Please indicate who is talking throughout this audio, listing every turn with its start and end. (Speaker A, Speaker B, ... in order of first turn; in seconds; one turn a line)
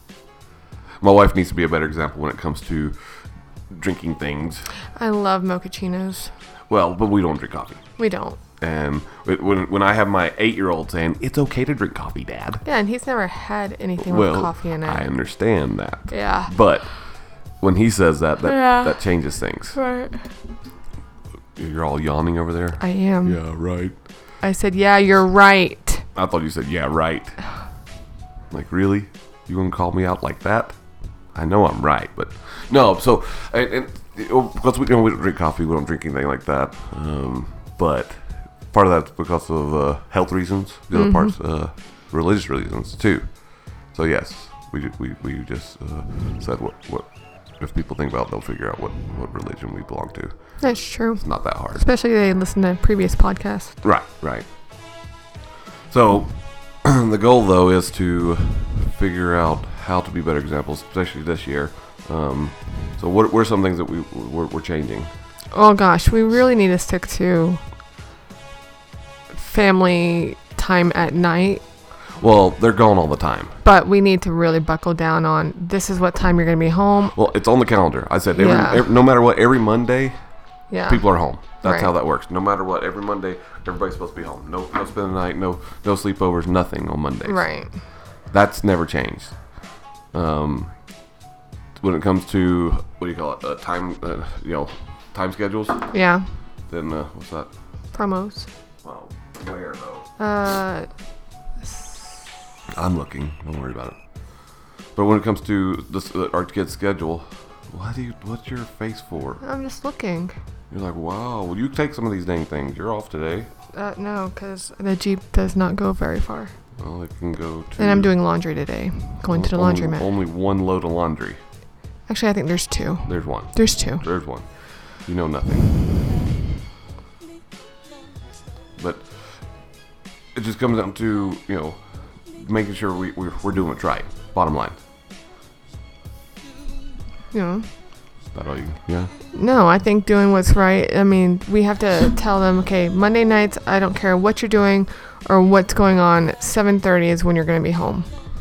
Speaker A: 1.0-3.0
Speaker A: 3.7-4.7
Speaker B: 5.0-6.3
Speaker A: 6.7-7.8
Speaker B: 8.0-8.4
Speaker A: 8.6-12.6
Speaker B: 12.7-15.1
Speaker A: 14.0-17.1
Speaker B: 16.1-16.5
Speaker A: 17.6-19.8
Speaker B: 18.4-19.0
Speaker B: 19.8-20.3
Speaker A: 21.6-23.9
Speaker B: 22.8-23.4
Speaker B: 24.4-26.1
Speaker A: 26.1-27.4
Speaker A: 28.5-30.8
Speaker A: 31.4-51.8
Speaker B: 40.9-41.3
Speaker B: 50.6-53.8
Speaker A: 53.8-54.5
Speaker A: 55.9-65.1
Speaker B: 65.5-67.6
Speaker B: 69.3-71.6
Speaker A: 72.2-73.5
Speaker B: 73.6-77.2
Speaker A: 77.2-80.2
Speaker B: 78.3-78.9
Speaker B: 80.7-81.9
Speaker A: 80.9-87.5
Speaker B: 87.2-87.8
Speaker A: 88.3-89.6
Speaker A: 90.1-90.7
Speaker A: 91.8-95.9
Speaker B: 95.9-96.3
Speaker A: 96.7-97.5
Speaker B: 97.9-98.5
Speaker A: 98.8-100.1
Speaker B: 100.2-100.9
Speaker B: 101.6-102.2
Speaker A: 102.8-104.0
Speaker A: 105.0-109.4
Speaker B: 109.4-110.4
Speaker A: 110.7-113.5
Speaker B: 113.7-116.5
Speaker A: 116.8-118.1
Speaker B: 117.8-120.1
Speaker A: 119.3-121.4
Speaker B: 122.1-124.0
Speaker A: 123.1-125.7
Speaker A: 128.8-129.4
Speaker A: 130.3-134.8
Speaker B: 137.3-137.7
Speaker A: 138.3-139.1
Speaker B: 139.3-148.1